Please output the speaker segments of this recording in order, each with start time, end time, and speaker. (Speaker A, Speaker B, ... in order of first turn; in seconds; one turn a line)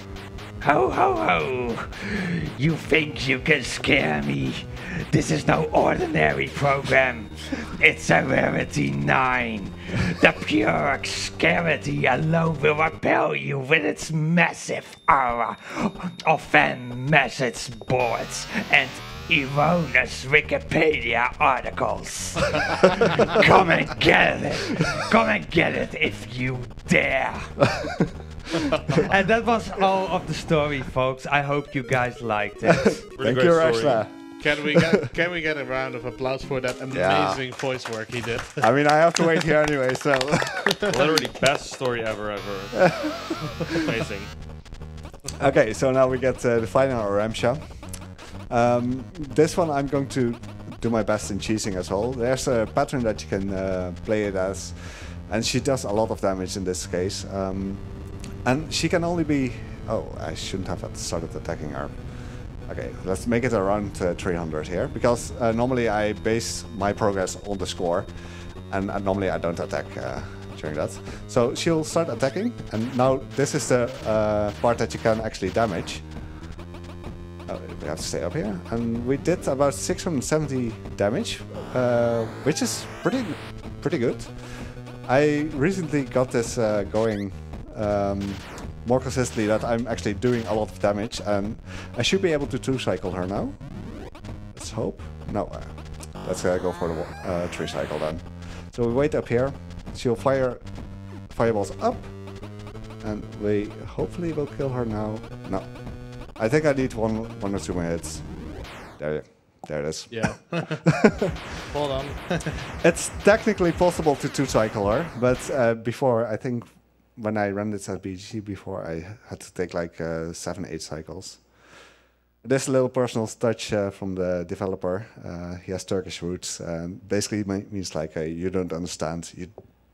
Speaker A: 0.6-27.7
Speaker A: 28.9-33.0
Speaker B: 33.1-34.9
Speaker C: 33.1-34.1
Speaker D: 34.4-39.0
Speaker B: 36.9-37.4
Speaker B: 38.6-41.0
Speaker C: 40.9-44.4
Speaker B: 42.9-43.4
Speaker B: 45.4-76.1
Speaker B: 77.5-94.0
Speaker B: 94.5-111.3
Speaker D: 110.1-112.6
Speaker B: 112.8-121.8
Speaker B: 122.4-129.6